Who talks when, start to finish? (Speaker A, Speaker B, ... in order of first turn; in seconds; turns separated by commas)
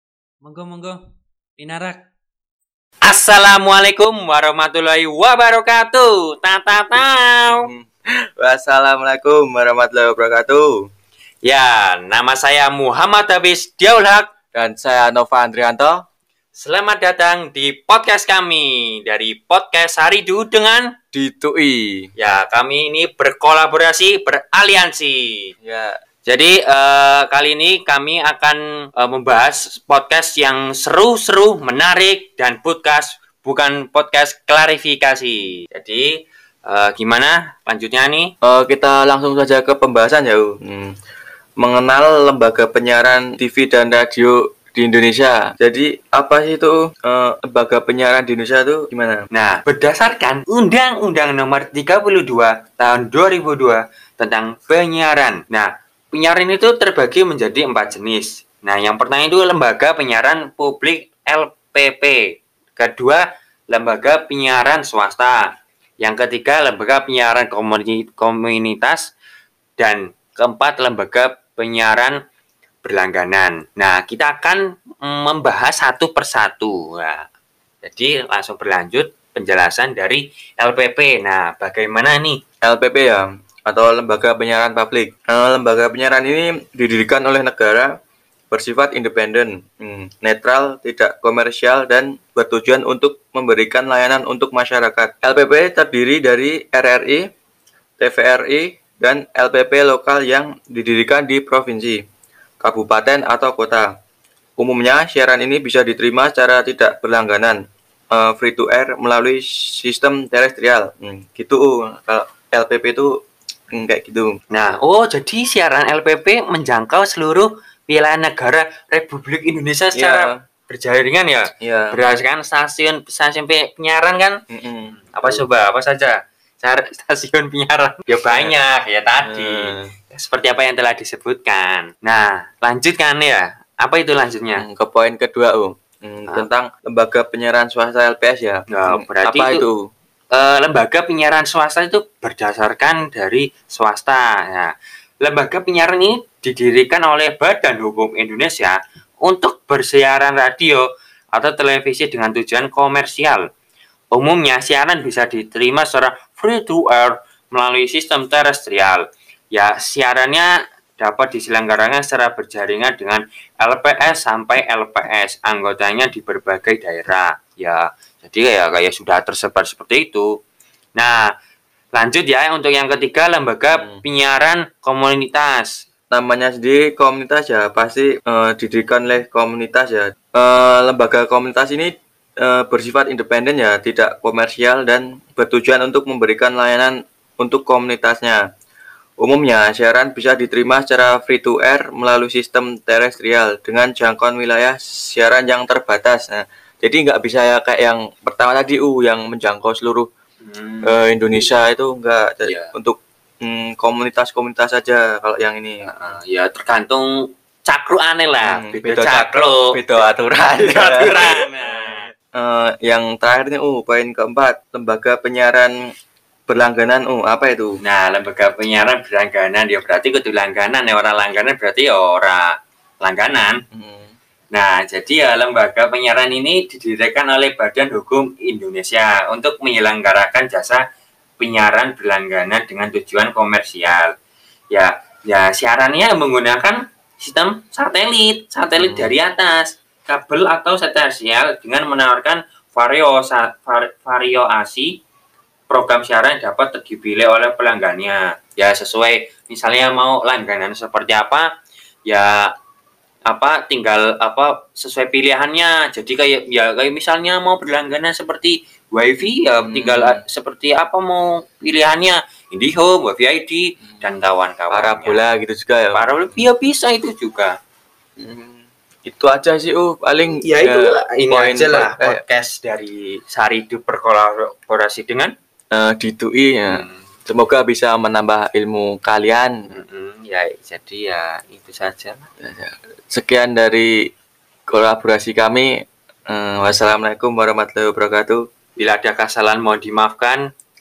Speaker A: 0.4-1.0, Speaker A: 1.6-2.0, Speaker A: 3.0-7.7, Speaker B: 7.5-7.9, Speaker B: 8.4-10.8, Speaker A: 11.4-14.3, Speaker B: 14.5-16.0, Speaker A: 16.5-20.9, Speaker B: 21.1-22.1, Speaker A: 22.1-25.5, Speaker B: 25.6-25.9, Speaker A: 26.2-36.1, Speaker A: 36.7-38.3, Speaker B: 38.4-40.9, Speaker B: 41.6-49.2, Speaker A: 49.3-62.2, Speaker A: 62.8-65.4, Speaker A: 66.0-69.1, Speaker A: 69.8-72.2, Speaker A: 72.8-77.2, Speaker A: 77.8-82.4, Speaker B: 82.6-87.9, Speaker B: 88.5-97.2, Speaker B: 98.0-102.0, Speaker B: 102.6-103.9, Speaker B: 104.6-107.6, Speaker B: 108.1-113.1, Speaker B: 113.7-114.3, Speaker A: 114.5-124.4, Speaker B: 119.9-120.3, Speaker B: 121.6-122.0, Speaker B: 124.5-125.4, Speaker A: 125.0-134.7, Speaker B: 128.3-128.6, Speaker B: 129.2-129.9, Speaker B: 134.6-139.8, Speaker A: 138.7-139.6, Speaker A: 140.3-144.7, Speaker A: 145.2-153.4, Speaker A: 154.1-170.3, Speaker A: 171.0-171.3, Speaker A: 171.9-175.7, Speaker B: 173.7-174.0, Speaker B: 176.1-188.4, Speaker B: 189.2-200.1, Speaker A: 200.4-201.0, Speaker B: 200.8-205.9, Speaker A: 202.4-202.7, Speaker A: 205.9-209.7, Speaker B: 208.4-215.7, Speaker A: 210.4-212.1, Speaker B: 216.5-217.8, Speaker A: 217.8-223.6, Speaker B: 223.7-224.1, Speaker A: 224.5-230.8, Speaker A: 231.4-234.1, Speaker A: 234.7-244.9, Speaker B: 238.8-239.1, Speaker A: 245.7-251.4, Speaker A: 252.1-252.5, Speaker A: 253.3-265.2, Speaker B: 259.6-260.2, Speaker B: 264.7-266.4, Speaker A: 265.9-267.5, Speaker B: 268.2-272.2, Speaker A: 270.4-275.3, Speaker B: 275.7-279.5, Speaker A: 276.6-277.1, Speaker A: 279.7-282.3, Speaker B: 282.4-283.9, Speaker B: 284.7-285.7, Speaker B: 286.3-288.4, Speaker A: 288.8-290.4